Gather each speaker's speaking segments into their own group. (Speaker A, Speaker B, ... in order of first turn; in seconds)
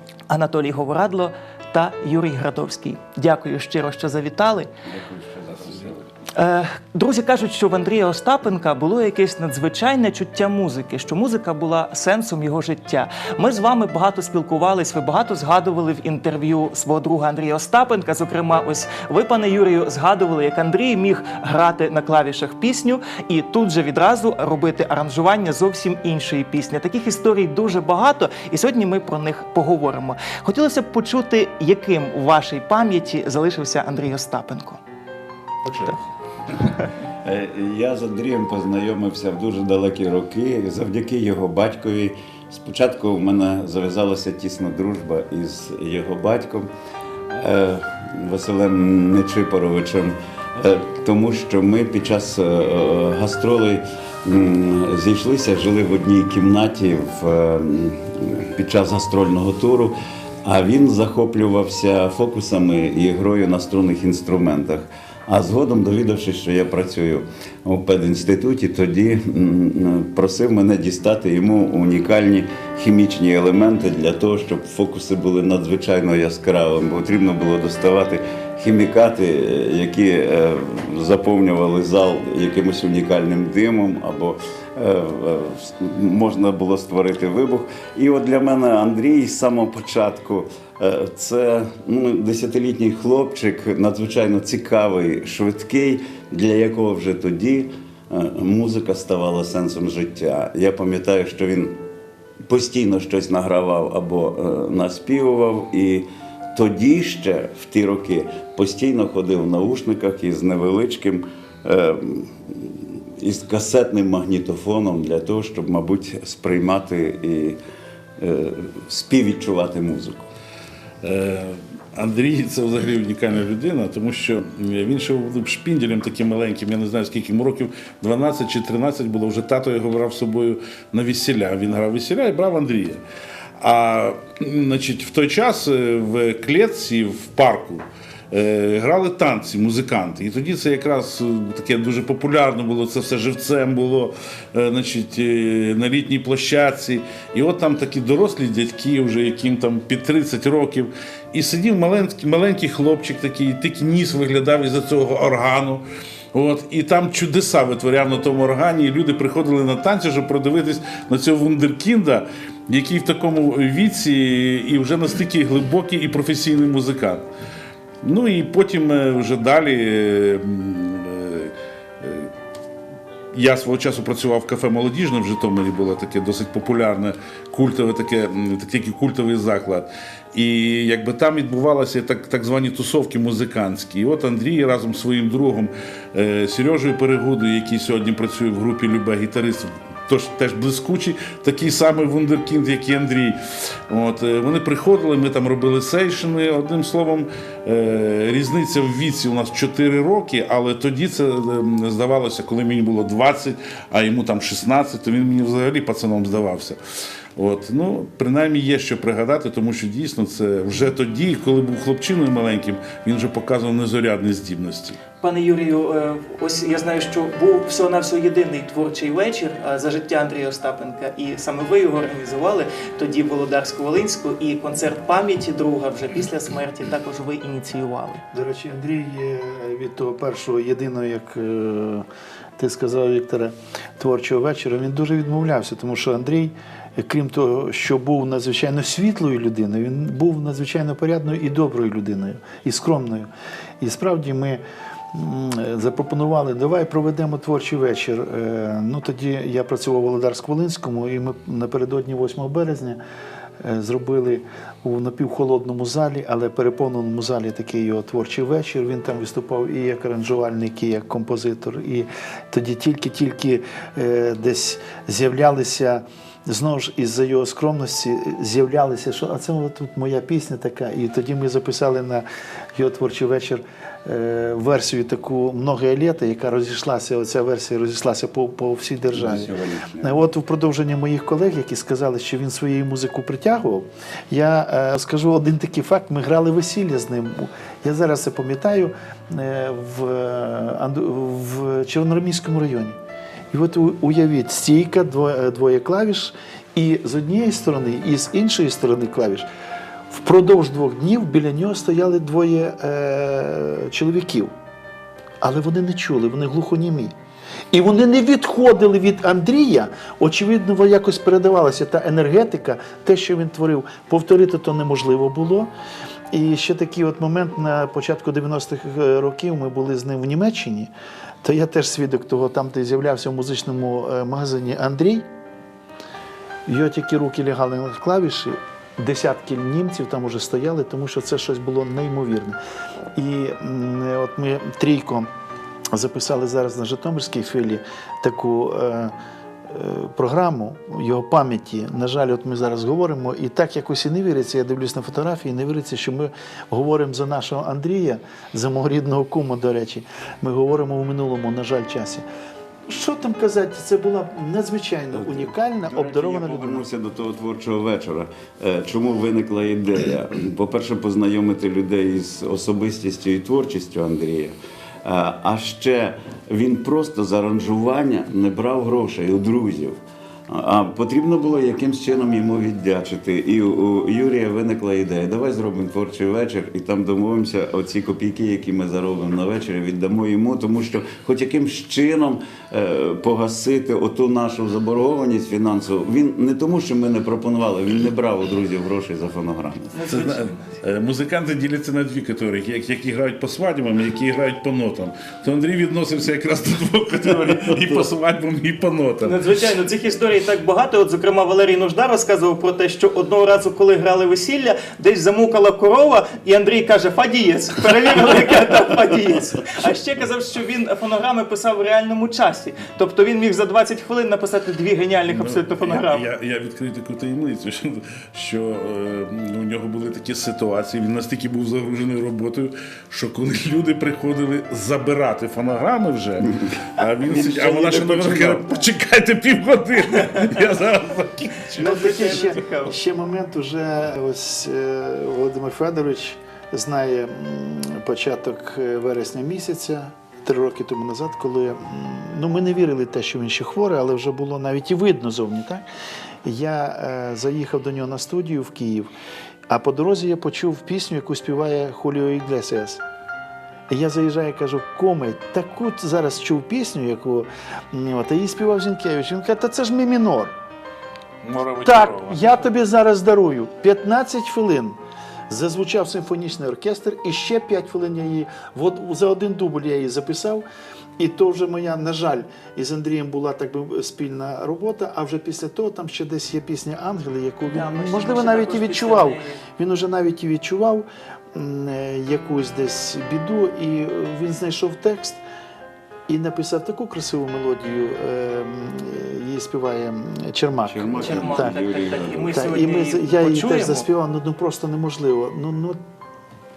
Speaker A: 0.3-4.7, 6.3-34.8, 35.7-36.0, 215.2-228.2, 389.9-390.8, 399.2-416.2, 431.8-433.0, 477.7-479.6, 491.2-494.1
Speaker B: 4.8-6.0, 37.2-46.7, 47.3-101.8, 102.5-117.6, 118.2-120.3, 279.1-280.2, 355.1-390.0, 397.3-398.0, 427.2-428.8, 490.8-492.7
Speaker C: 121.0-133.0, 133.6-167.2, 168.0-172.3, 173.3-193.4, 193.9-206.8, 207.3-215.0, 390.1-399.4, 415.3-432.1, 461.4-462.6
Speaker D: 228.3-232.1, 232.6-243.3, 243.8-244.6, 245.1-253.0, 253.6-279.5, 280.0-292.9, 293.5-299.5, 300.1-304.5, 305.4-307.1, 307.7-315.7, 316.3-320.9, 321.4-325.2, 326.7-332.6, 333.1-335.3, 335.9-339.1, 339.7-352.2, 352.9-356.8, 431.8-445.8, 446.4-449.1, 449.7-453.0, 453.9-460.5, 461.8-465.0, 465.5-470.6, 471.2-485.4, 486.3-491.8, 492.4-496.0